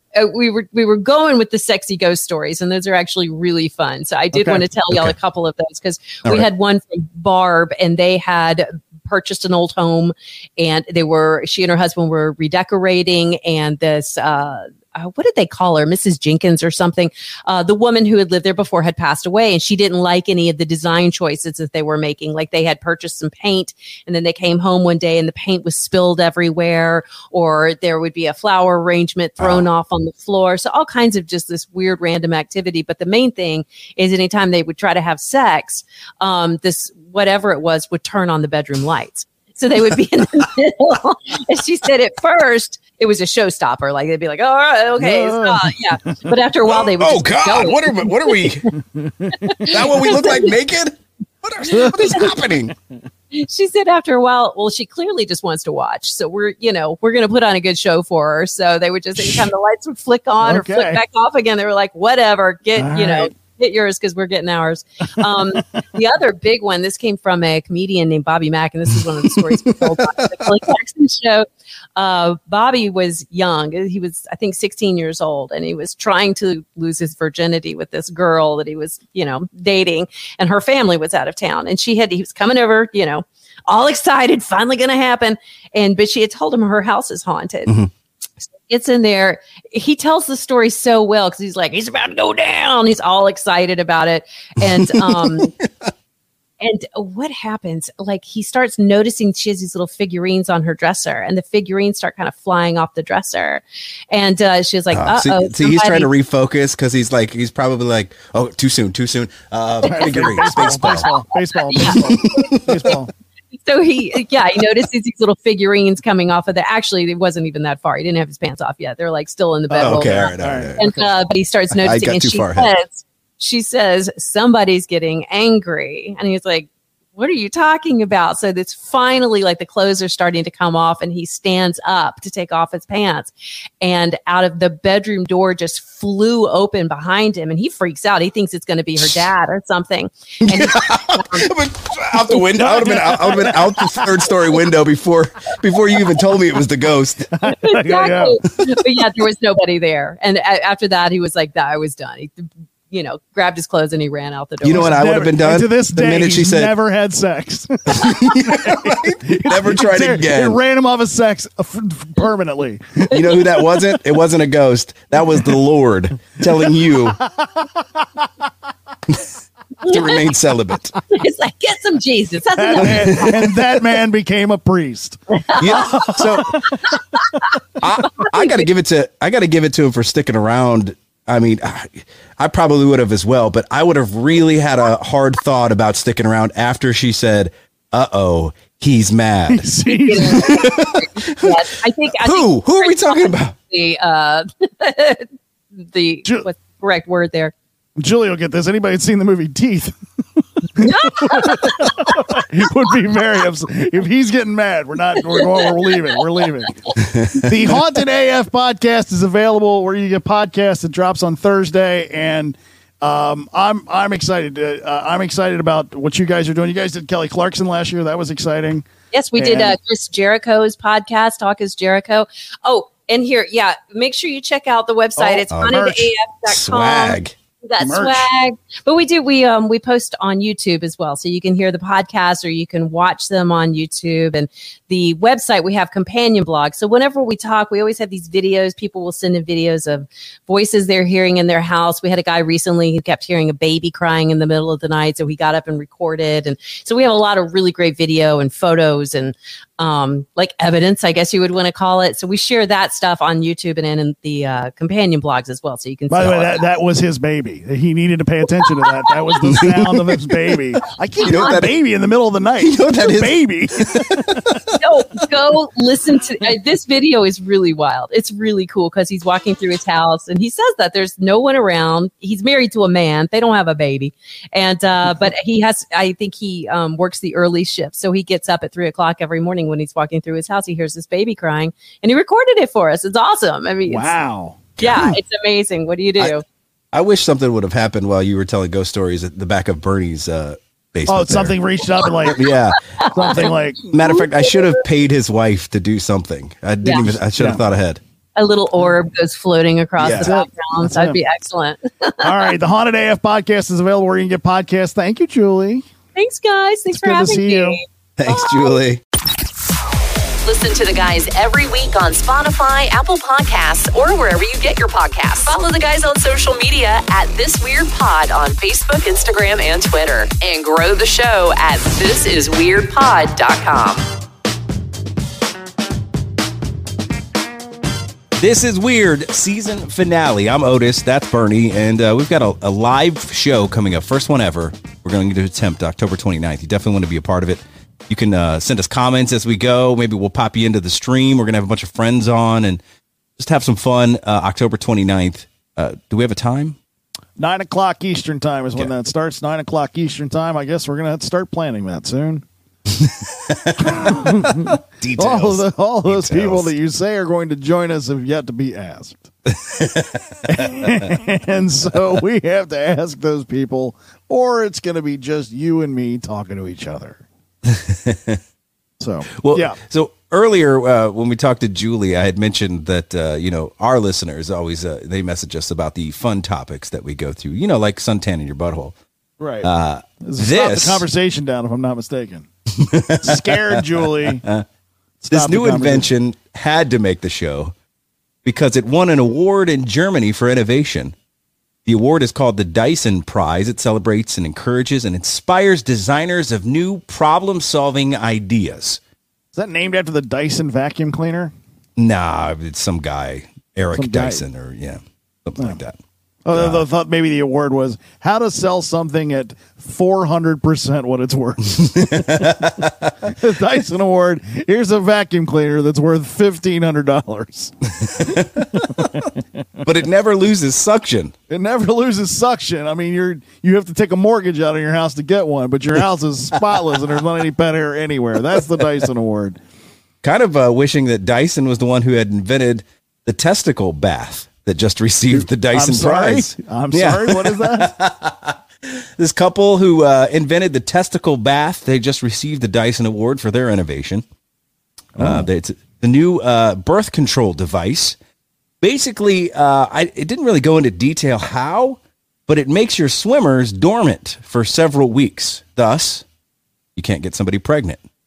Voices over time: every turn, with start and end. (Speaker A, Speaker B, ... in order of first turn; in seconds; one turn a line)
Speaker A: 0.1-48.7
Speaker B: 4.3-4.6
Speaker C: 4.9-5.2
Speaker C: 29.4-29.7
Speaker B: 45.0-46.3
Speaker C: 46.6-48.7
Speaker B: 48.9-49.7
Speaker A: 49.3-50.6
Speaker C: 49.7-52.7
Speaker B: 51.7-52.1
Speaker A: 51.8-52.5
Speaker A: 53.3-87.7
Speaker B: 59.2-59.5
Speaker B: 60.4-61.0
Speaker B: 62.8-63.3
Speaker C: 69.4-70.5
Speaker A: 88.7-95.5
Speaker C: 94.6-95.9
Speaker A: 96.6-106.1
Speaker C: 104.9-111.0
Speaker B: 109.8-113.1
Speaker A: 109.8-112.9
Speaker C: 111.8-112.9
Speaker A: 113.6-141.5
Speaker B: 119.7-121.0
Speaker C: 119.8-120.8
Speaker C: 121.7-122.7
Speaker C: 140.4-147.3
Speaker B: 142.6-144.1
Speaker B: 147.3-148.4
Speaker A: 147.5-155.0
Speaker C: 154.6-156.7
Speaker B: 154.7-163.1
Speaker C: 157.9-160.6
Speaker C: 163.1-167.2
Speaker A: 163.2-163.6
Speaker B: 167.2-168.3
Speaker A: 169.8-170.2
Speaker C: 169.8-170.9
Speaker A: 171.1-173.5
Speaker B: 172.5-177.5
Speaker C: 172.8-173.3
Speaker A: 175.5-176.2
Speaker C: 175.6-176.6
Speaker C: 177.8-191.6
Speaker A: 178.2-178.7
Speaker B: 189.5-190.7
Speaker A: 189.8-197.5
Speaker C: 192.2-193.5
Speaker B: 198.0-219.7
Speaker A: 200.8-201.9
Speaker A: 205.3-206.1
Speaker C: 207.0-207.4
Speaker A: 219.1-256.6
Speaker B: 225.2-226.1
Speaker C: 225.5-225.8
Speaker C: 226.5-227.3
Speaker B: 227.8-228.2
Speaker B: 256.1-264.6
Speaker A: 258.8-259.5
Speaker C: 259.4-260.4
Speaker A: 261.2-261.7
Speaker C: 261.2-261.7
Speaker C: 262.6-264.8
Speaker A: 264.8-284.1
Speaker B: 283.9-284.6
Speaker C: 284.8-285.2
Speaker A: 284.8-286.4
Speaker C: 286.9-291.6
Speaker B: 291.1-292.4
Speaker C: 292.1-298.0
Speaker A: 292.9-294.8
Speaker B: 293.1-293.8
Speaker A: 296.8-297.1
Speaker B: 297.0-297.6
Speaker A: 298.4-302.5
Speaker C: 300.0-300.3
Speaker B: 300.1-301.2
Speaker B: 302.2-305.9
Speaker A: 306.1-308.8
Speaker B: 306.9-307.8
Speaker C: 308.2-309.0
Speaker D: 310.4-324.0
Speaker C: 328.4-342.8
Speaker C: 343.4-346.8
Speaker B: 347.4-352.4
Speaker C: 352.9-356.7
Speaker B: 353.8-359.3
Speaker C: 359.4-361.2
Speaker B: 360.5-367.2
Speaker C: 367.6-368.4
Speaker B: 369.0-369.8
Speaker C: 369.3-378.9
Speaker B: 379.4-379.7
Speaker C: 379.6-381.1
Speaker B: 380.2-382.5
Speaker C: 382.7-384.6
Speaker B: 383.1-384.4
Speaker B: 385.2-386.1
Speaker C: 385.3-387.7
Speaker C: 388.4-391.1
Speaker C: 391.9-399.0
Speaker B: 399.5-401.5
Speaker C: 402.0-406.0
Speaker B: 403.9-404.4
Speaker B: 406.4-412.7
Speaker C: 406.5-406.8
Speaker C: 411.8-413.1
Speaker B: 413.2-419.4
Speaker C: 418.0-419.1
Speaker C: 419.8-421.3
Speaker B: 421.5-429.6
Speaker C: 430.2-444.2
Speaker B: 435.7-437.9
Speaker B: 445.1-445.5
Speaker C: 445.2-448.2
Speaker C: 448.8-456.2
Speaker C: 456.9-458.0